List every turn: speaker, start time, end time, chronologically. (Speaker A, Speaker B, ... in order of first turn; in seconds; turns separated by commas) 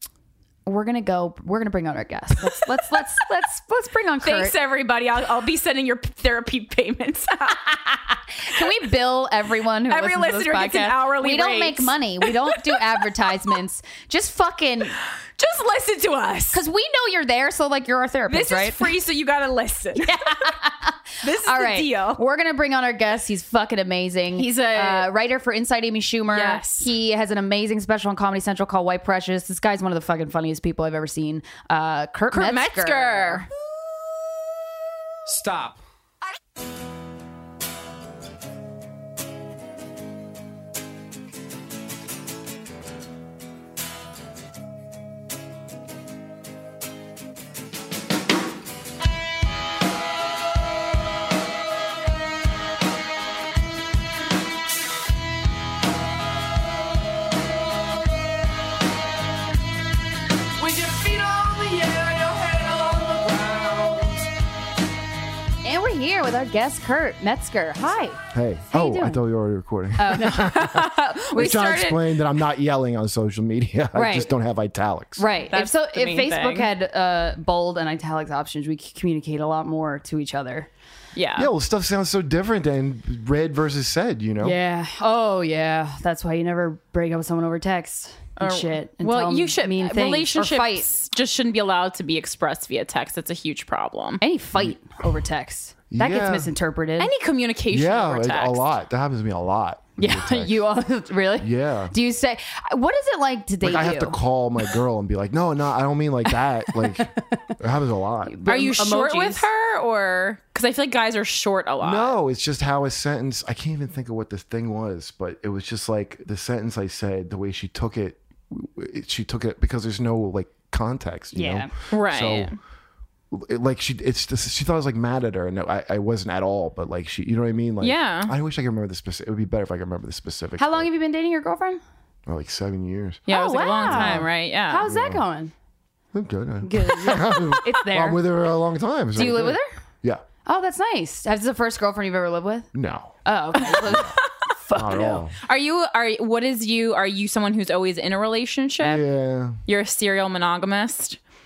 Speaker A: 0.7-4.5, Speaker B: 4.2-7.7, Speaker A: 7.7-15.0, Speaker B: 9.9-12.8, Speaker B: 15.4-16.6, Speaker A: 16.5-18.9, Speaker B: 18.3-20.6, Speaker A: 20.0-33.5, Speaker B: 21.2-22.2, Speaker B: 24.3-25.1, Speaker B: 26.3-26.9, Speaker B: 32.3-33.5, Speaker C: 35.3-35.8, Speaker C: 60.6-64.2, Speaker A: 65.6-69.2, Speaker D: 68.3-75.2, Speaker A: 70.0-70.6, Speaker B: 70.1-72.2, Speaker A: 71.3-71.6, Speaker A: 73.9-74.3, Speaker A: 75.2-80.7, Speaker B: 75.5-76.7, Speaker B: 81.2-81.5, Speaker D: 81.4-84.6, Speaker A: 84.4-90.9, Speaker B: 88.4-94.2, Speaker A: 94.2-97.1, Speaker D: 94.6-94.9, Speaker D: 95.9-96.5, Speaker B: 97.0-98.7, Speaker D: 97.7-100.7, Speaker A: 100.0-104.2, Speaker D: 101.4-101.9, Speaker D: 103.6-108.4, Speaker A: 106.3-107.4, Speaker A: 108.2-109.5, Speaker B: 108.5-112.2, Speaker D: 111.8-122.5, Speaker A: 121.3-121.7, Speaker B: 121.9-122.6, Speaker D: 123.3-130.9, Speaker B: 127.8-128.3, Speaker A: 130.6-131.8, Speaker D: 132.3-133.3, Speaker B: 133.3-134.8, Speaker A: 133.3-135.5, Speaker D: 133.8-134.2, Speaker D: 134.8-135.2, Speaker D: 136.1-140.2, Speaker A: 136.6-138.2, Speaker A: 139.2-139.7, Speaker A: 140.5-142.7, Speaker D: 142.7-144.1, Speaker A: 143.3-145.2, Speaker D: 144.7-145.3, Speaker B: 145.4-149.0, Speaker D: 148.8-149.6, Speaker B: 149.7-151.2